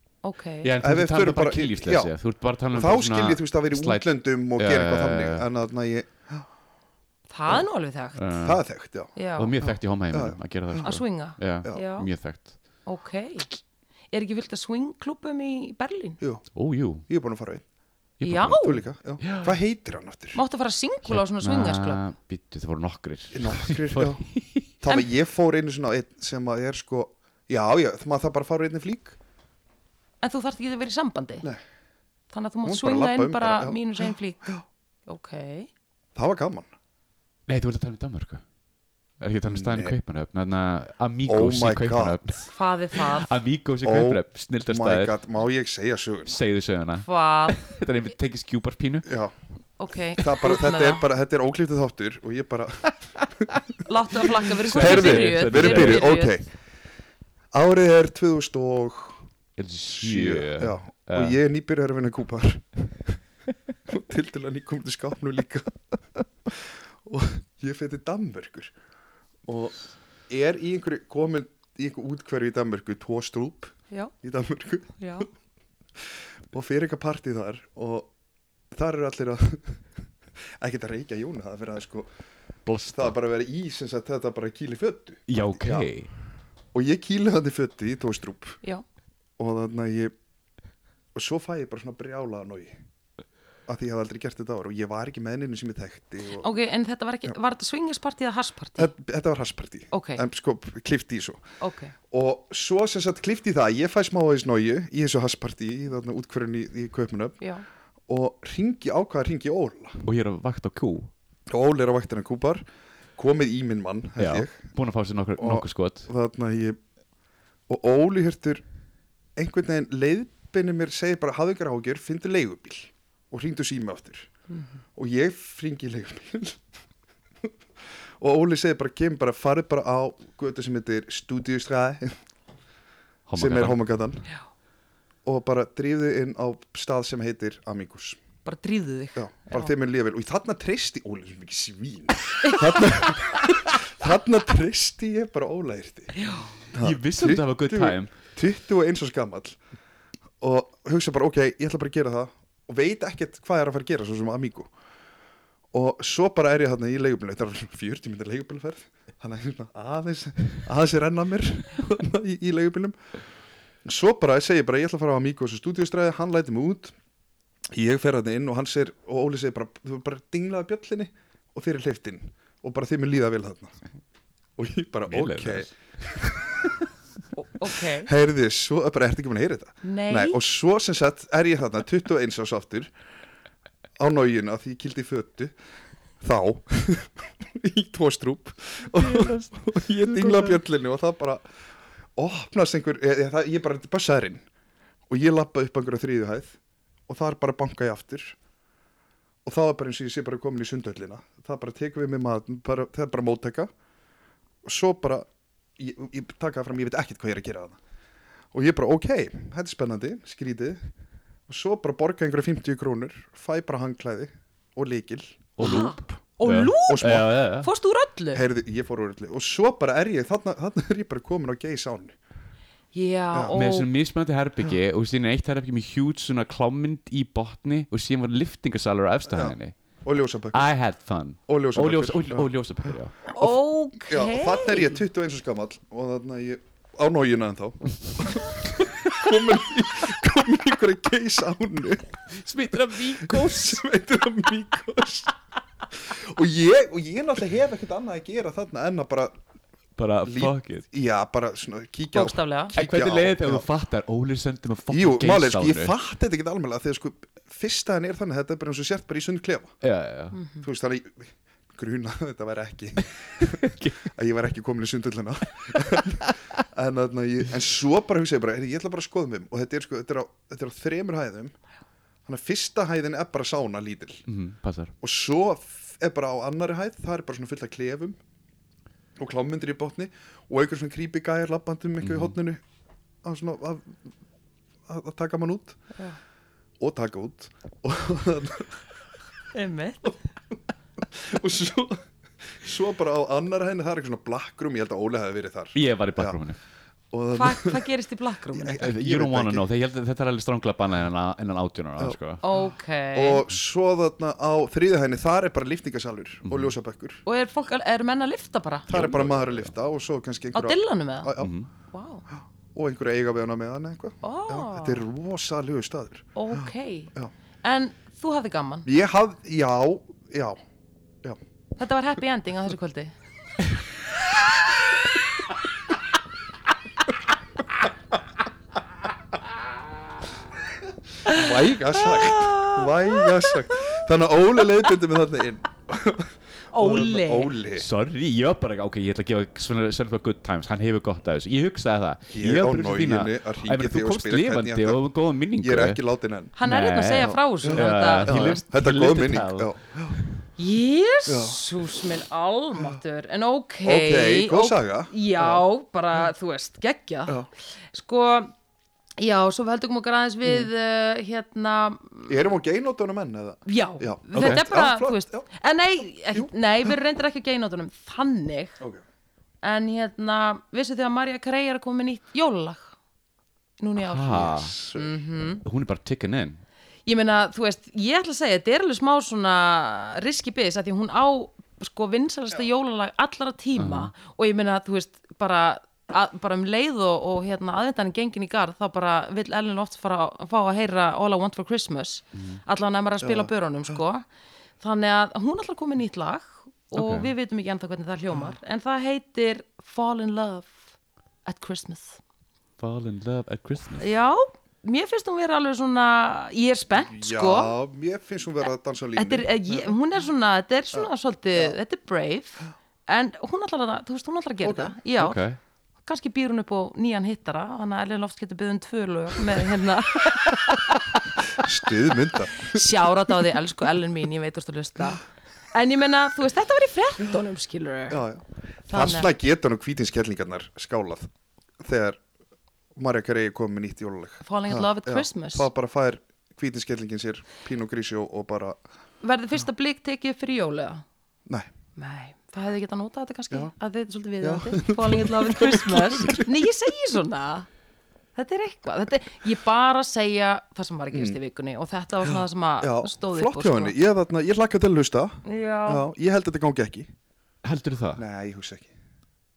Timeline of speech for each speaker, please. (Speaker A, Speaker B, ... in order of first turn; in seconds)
Speaker A: 0.2-0.7, 7.3-8.3, 9.2-9.5, 10.8-12.1, 12.9-13.6, 14.1-16.2, 18.2-18.8, 20.3-22.0, 30.2-31.5, 32.3-34.4, 35.1-35.7, 42.5-43.3, 47.0-47.6, 49.8-51.0, 53.9-56.4, 75.0-75.3, 96.4-98.9, 99.9-100.2, 101.6-102.0, 124.5-124.8, 138.4-139.7, 142.4-143.1, 146.1-146.5, 177.3-178.1, 179.8-180.4, 215.6-218.4, 222.9-223.9, 233.3-235.0, 252.1-252.7, 260.3-260.6, 289.5-290.2, 297.3-298.9, 302.4-303.4, 307.3-308.9, 310.5-311.3, 311.9-312.2, 314.2-315.0, 316.4-318.9, 321.8-323.1, 331.3-333.8, 336.7-337.6, 346.6-348.6, 350.6-358.5, 359.2-362.4, 363.7-368.8, 369.6-372.9, 373.8-375.6, 377.1-394.3, 394.8-400.8, 401.4-402.2, 404.0-407.8, 409.2-415.4, 416.1-428.2, 428.9-429.3, 434.4-435.7, 439.2-441.1, 442.0-447.7, 448.4-453.9, 455.4-456.1
Speaker B: 0.6-5.5, 8.2-8.6, 9.4-12.5, 16.6-17.1, 18.2-19.6, 21.1-24.7, 37.5-38.4, 39.2-45.1, 46.3-49.1, 54.6-56.2, 59.6-61.4, 82.7-83.2, 85.3-86.1, 110.0-111.1, 114.2-116.1, 133.3-133.8, 146.8-148.1, 175.1-175.7, 188.9-190.6, 215.6-217.7, 223.5-229.7, 230.5-233.3, 242.4-243.8, 250.0-250.9, 252.7-255.9, 259.8-260.4, 263.4-264.0, 274.3-274.9, 282.0-282.3, 295.7-296.6, 298.8-302.4, 306.4-306.7, 308.9-309.7, 311.4-311.7, 337.7-346.0, 346.6-349.7, 364.4-364.6, 374.0-374.8, 375.6-376.6, 383.8-384.1, 392.4-392.6, 396.9-397.3, 402.8-404.1, 415.2-415.6, 457.6-458.2
Speaker C: 0.8-2.1, 2.7-6.5, 8.4-11.0, 16.2-16.5, 17.1-17.6, 18.6-20.4, 23.3-24.2, 24.8-29.2, 32.6-34.6, 36.1-36.7, 39.5-40.0, 41.3-42.2, 43.8-46.4, 49.0-49.4, 50.2-53.5, 54.7-56.5, 57.5-59.2, 59.9-63.2, 63.9-68.7, 69.5-69.8, 70.3-75.2, 76.0-78.1, 78.7-79.8, 80.6-82.1, 82.9-85.9, 86.7-88.6, 89.4-90.1, 91.1-92.8, 93.7-96.5, 98.8-101.4, 102.1-107.4, 108.1-110.0, 111.5-112.6, 113.2-114.6, 115.4-116.8, 117.7-118.6, 119.4-124.3, 125.0-126.6, 128.2-132.2, 133.4-134.3, 135.2-138.2, 139.2-146.1, 146.7-149.6, 150.4-154.7, 155.7-163.0, 163.8-166.9, 167.7-173.8, 174.6-176.7, 177.6-182.9, 184.0-185.5, 186.2-191.4, 192.2-194.4, 195.1-198.4, 199.4-203.7, 204.6-205.3, 205.8-207.8, 208.5-210.8, 211.5-216.2, 216.9-217.3, 218.3-222.2, 229.3-230.7, 231.5-232.5, 234.1-242.2, 243.2-245.3, 245.9-249.3, 250.2-253.7, 254.9-259.7, 260.6-271.6, 272.3-274.2, 275.0-278.2, 279.2-282.6, 283.2-284.1, 284.9-285.8, 286.8-288.9, 291.0-296.4, 297.1-297.9, 298.5-299.6, 303.1-307.2, 308.9-311.5, 312.7-317.3, 318.9-320.6, 331.2-337.9, 342.3-345.0, 345.6-346.6, 347.2-350.4, 351.3-351.6, 353.8-355.6, 360.4-360.7, 362.3-365.4, 366.3-366.9, 374.3-375.1, 393.2-394.0, 407.0-409.9, 410.9-411.7, 414.6-414.9, 421.5-423.1, 428.1-431.3, 431.8-432.2, 432.9-438.8, 444.4-446.5, 451.1-451.4, 452.8-457.1, 458.2-458.9